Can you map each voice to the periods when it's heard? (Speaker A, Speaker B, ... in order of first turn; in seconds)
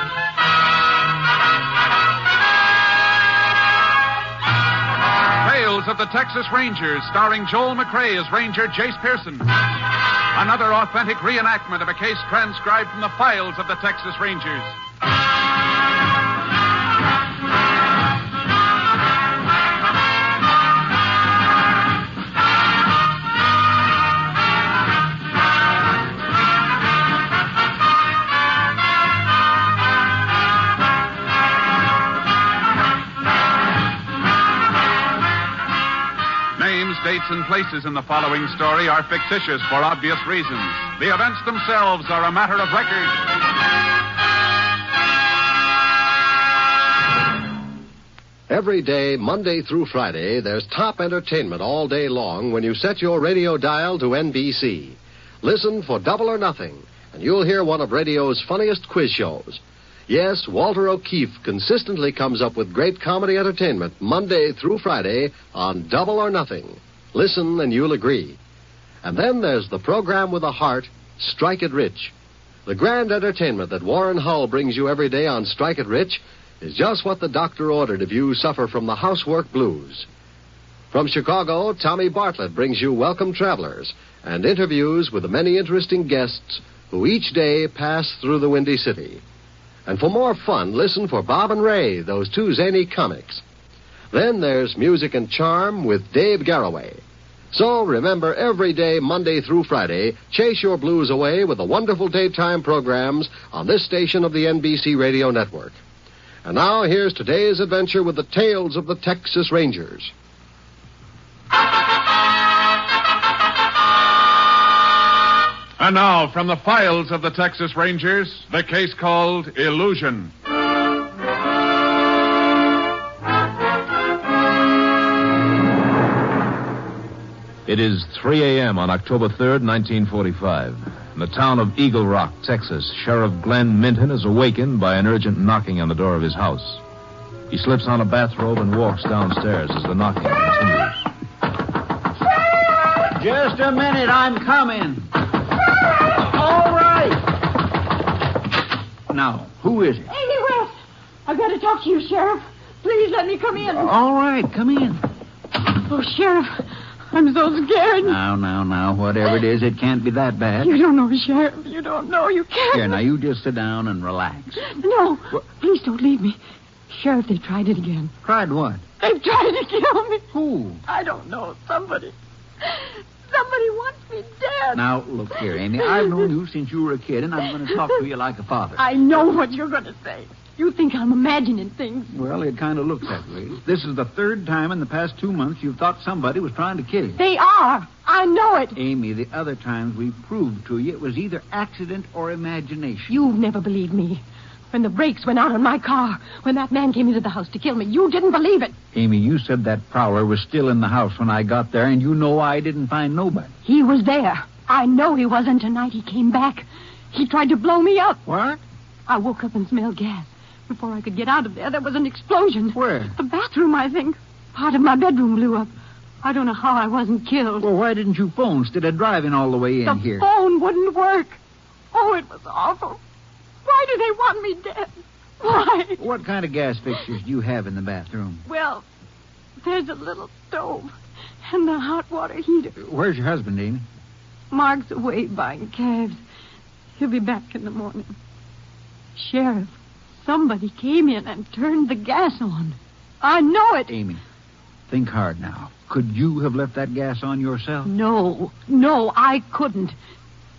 Speaker A: 5.4-9.5, 10.3-14.8, 36.5-43.1, 115.8-120.3
Speaker B: 48.5-68.4, 69.0-72.1, 72.7-80.1, 80.9-89.2, 89.8-93.4, 94.1-97.0, 97.5-105.8, 106.4-110.1
Speaker C: 127.7-136.8, 137.5-140.9
Speaker D: 142.8-145.1, 146.1-147.3, 149.1-150.1, 153.7-155.0, 158.0-160.7, 162.7-164.6, 168.2-168.8, 170.3-170.8, 174.7-178.8, 182.1-187.2, 188.7-193.2, 198.9-203.5, 208.2-208.6, 212.7-213.2, 217.6-220.2, 226.0-228.4, 232.8-233.8, 243.9-244.2, 244.9-247.9
Speaker E: 150.1-150.7, 151.2-153.9, 155.8-158.2, 160.6-163.0, 164.6-166.4, 166.9-168.1, 169.0-170.2, 170.8-174.8, 178.8-182.1, 187.2-188.8, 193.1-198.7, 203.6-208.2, 209.1-215.7, 216.2-217.7, 219.8-221.4, 221.9-223.0, 223.6-226.0, 228.4-228.8, 229.6-232.7, 234.5-236.2, 237.0-238.1, 239.2-243.9, 247.8-249.9